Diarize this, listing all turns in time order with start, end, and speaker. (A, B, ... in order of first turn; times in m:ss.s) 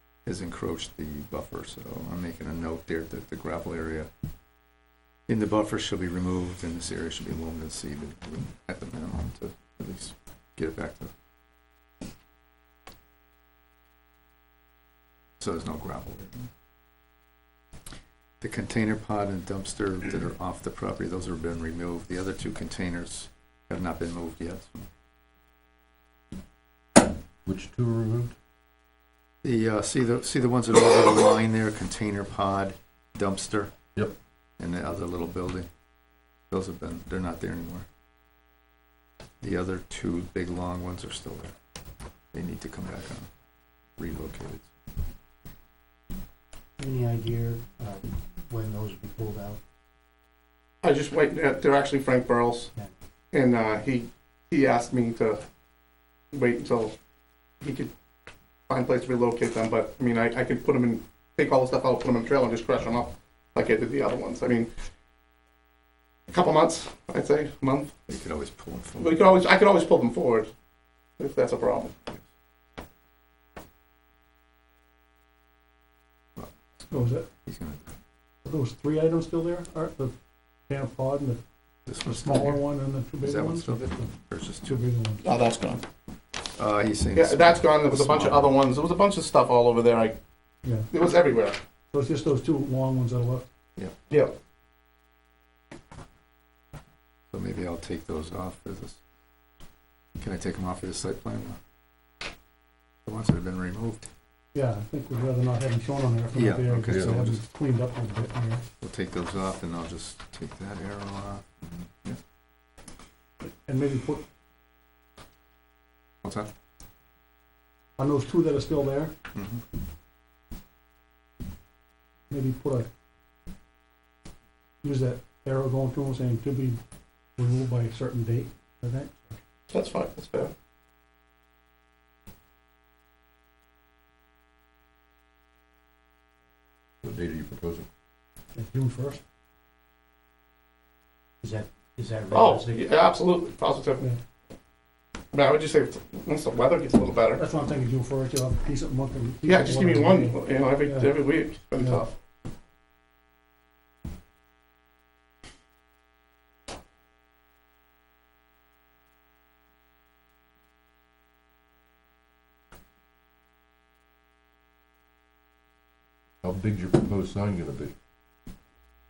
0:00.2-0:04.1 A
0:05.3-0:11.1 A
0:15.4-0:16.5 A
0:18.4-0:24.9 A
0:27.4-0:28.3 B
0:29.4-0:33.7 A
0:34.6-0:35.7 A
0:36.5-0:37.8 A
0:39.4-0:41.5 A
0:42.3-0:43.3 A
0:44.0-0:44.7 A
0:46.8-0:49.6 C
0:50.8-0:52.7 D
0:53.3-0:55.4 D
0:56.3-0:56.9 D
0:57.6-0:57.9 D
0:58.7-1:04.7 D
1:06.3-1:07.9 D
1:08.1-1:09.4 A
1:09.0-1:10.5 D
1:11.2-1:12.0 D
1:16.9-1:17.3 E
1:17.4-1:17.8 A
1:18.4-1:20.1 E
1:20.7-1:21.4 E
1:21.8-1:22.6 A
1:22.0-1:24.1 E
1:23.2-1:24.8 A
1:24.6-1:25.2 E
1:25.2-1:25.8 D
1:26.5-1:28.5 A
1:27.1-1:30.2 D
1:30.9-1:31.6 D
1:31.9-1:33.4 E
1:37.3-1:39.0 A
1:40.2-1:41.6 A
1:43.0-1:44.1 A
1:44.5-1:48.6 E
1:46.3-1:47.4 A
1:46.9-1:47.2 B
1:48.8-1:52.2 A
1:53.4-1:54.2 E
1:56.2-1:56.5 A
1:58.0-1:59.1 E
1:59.3-1:59.6 A
2:02.3-2:02.9 E
2:04.8-2:06.8 E
2:07.4-2:09.4 E
2:09.7-2:10.5 D
2:17.0-2:17.9 B
2:18.5-2:19.2 E
2:21.4-2:23.0 C
2:22.3-2:24.0 D
2:25.3-2:27.4 D
2:27.4-2:31.1 E
2:29.4-2:32.1 D
2:31.8-2:32.0 E
2:46.4-2:47.9 B